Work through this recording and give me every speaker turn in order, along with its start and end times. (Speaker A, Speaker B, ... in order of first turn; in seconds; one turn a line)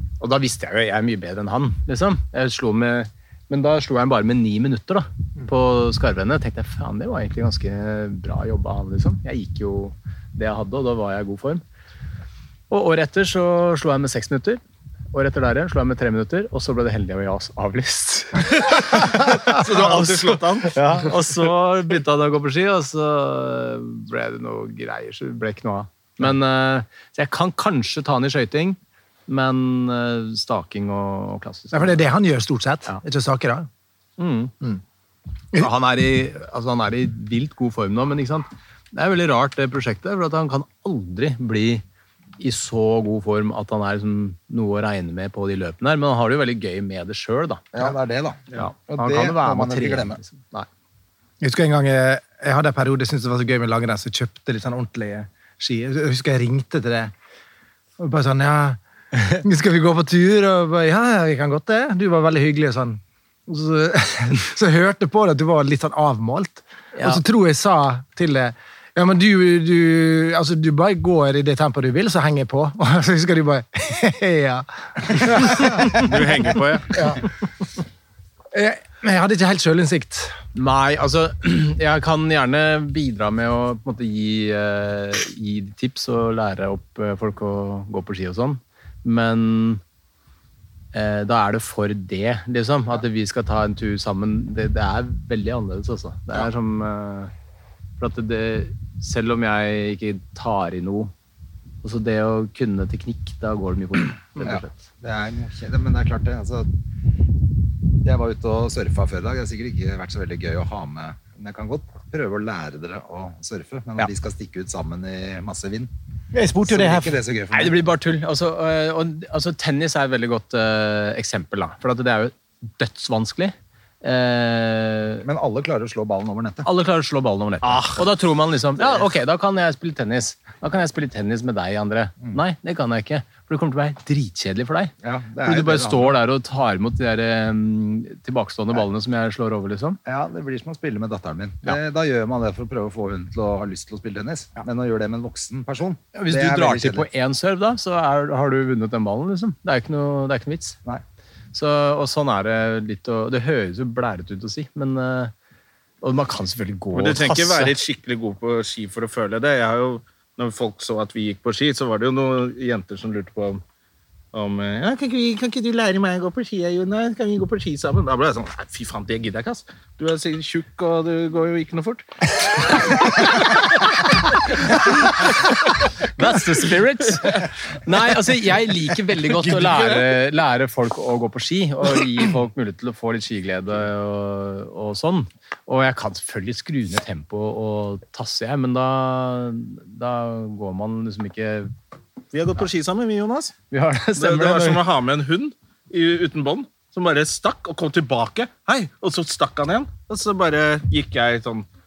Speaker A: 0.2-11.6
Speaker A: 12.7-14.6
Speaker A: 15.1-32.0
Speaker B: 18.6-20.8
Speaker C: 31.7-33.7
Speaker A: 34.2-34.5
Speaker A: 35.5-41.8
Speaker A: 42.4-47.8
Speaker D: 47.7-50.2
Speaker A: 48.5-50.7
Speaker C: 51.4-57.1
Speaker C: 58.0-76.1
Speaker A: 66.9-67.2
Speaker B: 75.6-77.2
Speaker C: 76.9-77.2
Speaker C: 78.5-80.3
Speaker A: 80.5-89.8
Speaker A: 90.9-97.3
Speaker A: 98.0-101.1
Speaker A: 101.8-104.8
Speaker D: 104.4-106.7
Speaker D: 108.0-115.9
Speaker C: 116.3-117.2
Speaker D: 116.6-117.8
Speaker A: 117.5-125.2
Speaker D: 125.2-126.7
Speaker A: 126.6-140.0
Speaker D: 135.0-136.2
Speaker D: 140.0-147.1
Speaker A: 146.1-150.8
Speaker A: 151.5-155.3
Speaker A: 156.0-157.7
Speaker B: 156.9-163.6
Speaker B: 164.3-172.0
Speaker B: 172.6-173.7
Speaker B: 174.6-175.3
Speaker A: 176.2-191.7
Speaker B: 179.4-179.8
Speaker B: 192.3-193.5
Speaker A: 193.7-194.8
Speaker B: 194.2-201.7